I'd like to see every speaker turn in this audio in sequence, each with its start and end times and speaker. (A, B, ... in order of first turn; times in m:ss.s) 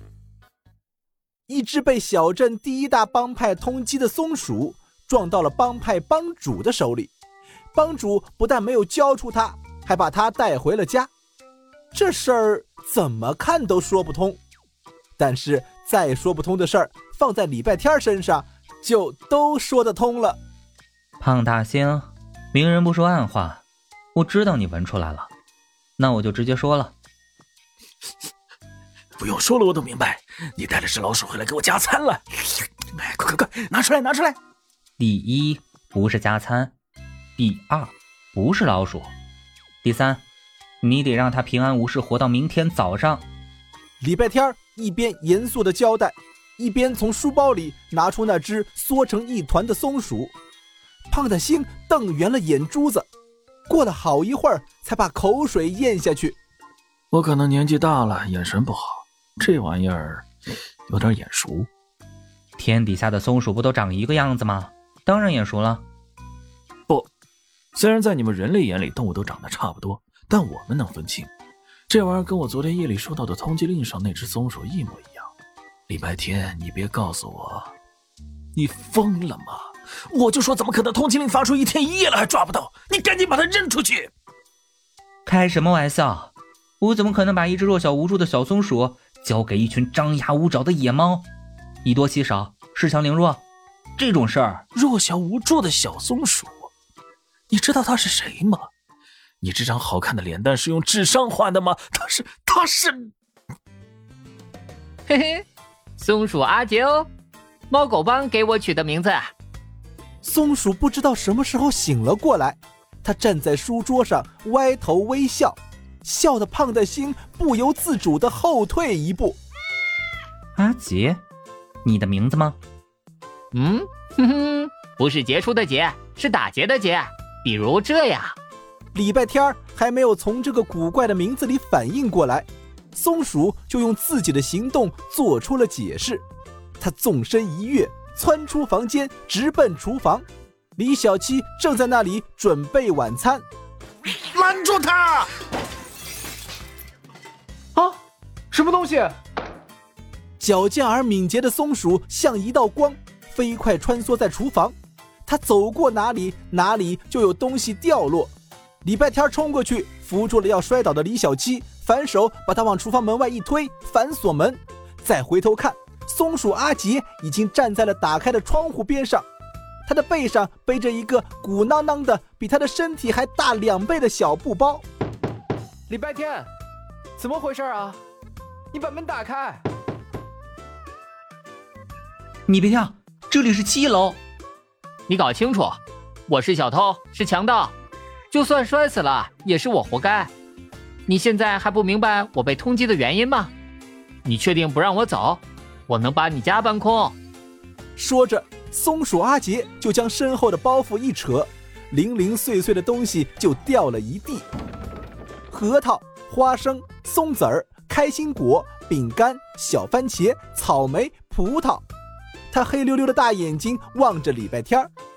0:01.5-0:07.1 A
0:07.7-0:11.1 A
0:11.9-0:14.4 A
0:15.2-0:20.4 A
0:21.2-0:23.6 B
0:24.1-0:25.3 B
0:26.0-0:26.9 B
0:29.2-0:34.4 C
0:35.0-0:36.7 B
0:37.4-0:39.1 B
0:39.8-0:40.2 B
0:40.8-0:43.2 B
0:44.0-0:50.3 A
0:51.1-0:53.1 A
0:53.7-0:56.4 A
0:57.1-1:00.2 C
1:00.9-1:01.7 C
1:02.6-1:05.8 B
1:07.7-1:11.3 C
1:11.9-1:15.3 C
1:15.9-1:17.7 C
1:18.5-1:24.1 C
1:25.2-1:31.3 B
1:31.8-1:33.4 B
1:34.0-1:34.6 B
1:34.7-1:36.7 C
1:37.5-1:38.7 C
1:39.4-1:43.1 C
1:45.1-1:45.4 D
1:46.0-1:47.1 D
1:47.7-1:49.3 D
1:50.2-1:59.4 A
2:00.6-2:01.2 B
2:01.8-2:02.6 B
2:03.5-2:08.3 D
2:08.9-2:16.2 A
2:16.8-2:20.2 A
2:20.8-2:23.4 A
2:24.3-2:25.3 C
2:28.5-2:29.2 E
2:30.4-2:34.7 A
2:35.3-2:38.3 A
2:38.8-2:49.2 A
2:49.8-2:54.8 A
2:55.9-2:56.5 E
2:57.2-2:58.0 E
2:58.7-2:59.6 E
3:02.5-3:04.2 B
3:05.1-3:07.7 D
3:08.3-3:10.3 D
3:11.1-3:13.5 D
3:14.2-3:17.1 D
3:18.0-3:24.4 A
3:25.5-3:31.8 A
3:32.5-3:34.9 A